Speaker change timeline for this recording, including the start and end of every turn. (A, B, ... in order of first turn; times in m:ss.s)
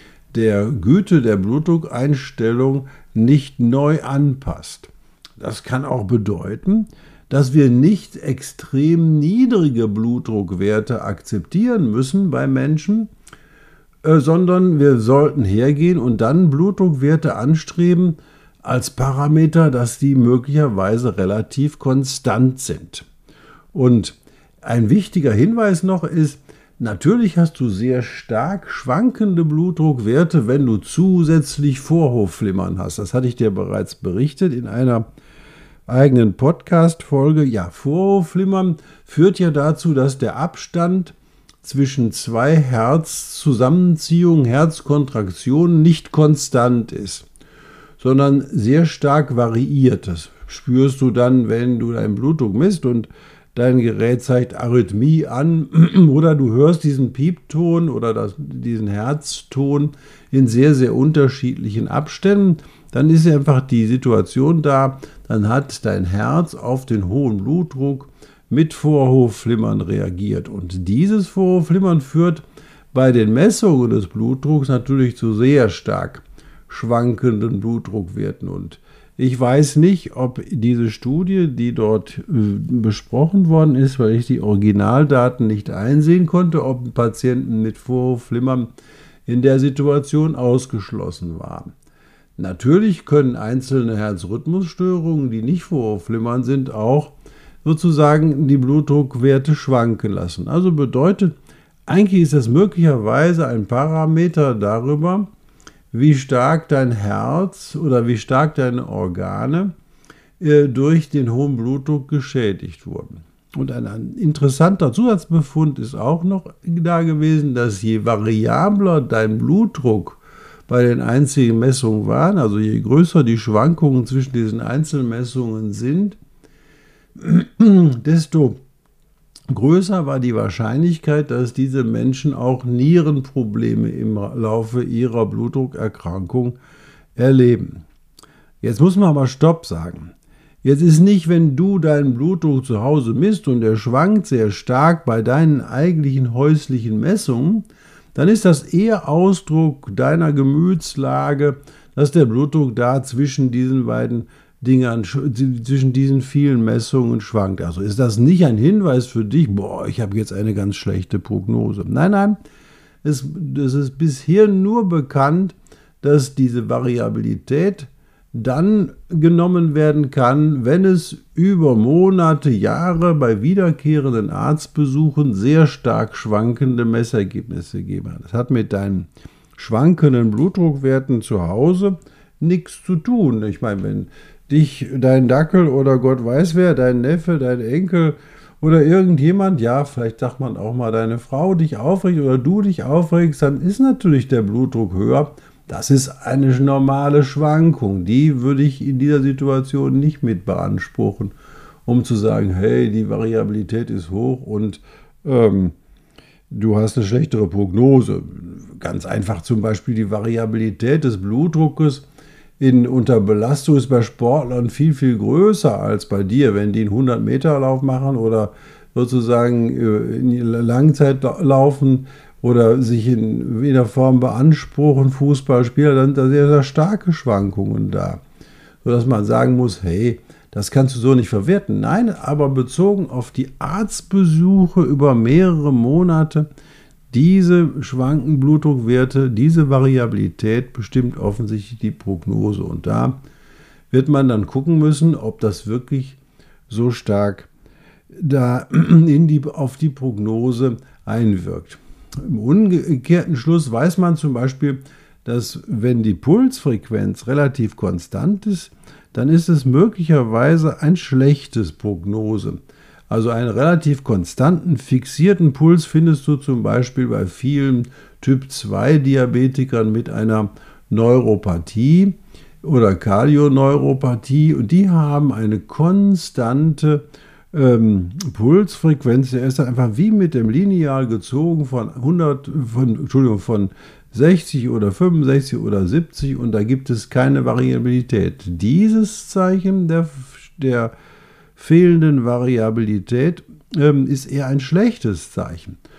0:00.3-0:13.1 A
0:14.0-0:23.1 A
0:23.7-0:35.0 A
0:35.9-0:47.2 A
0:48.0-1:28.7 A
1:29.3-1:31.7 A
1:32.4-1:41.4 A
1:41.9-1:45.3 A
1:45.9-1:49.7 A
1:50.4-2:06.2 A
2:07.2-2:08.6 A
2:09.5-2:16.6 A
2:17.2-2:17.8 A
2:18.6-2:20.1 A
2:20.6-2:42.4 A
2:43.0-3:21.3 A
3:21.8-3:25.7 A
3:26.5-3:32.0 A
3:32.6-3:48.2 A
3:48.8-3:56.5 A
3:57.1-4:03.2 A
4:03.9-4:07.5 A
4:08.1-4:50.9 A
4:51.6-4:55.8 A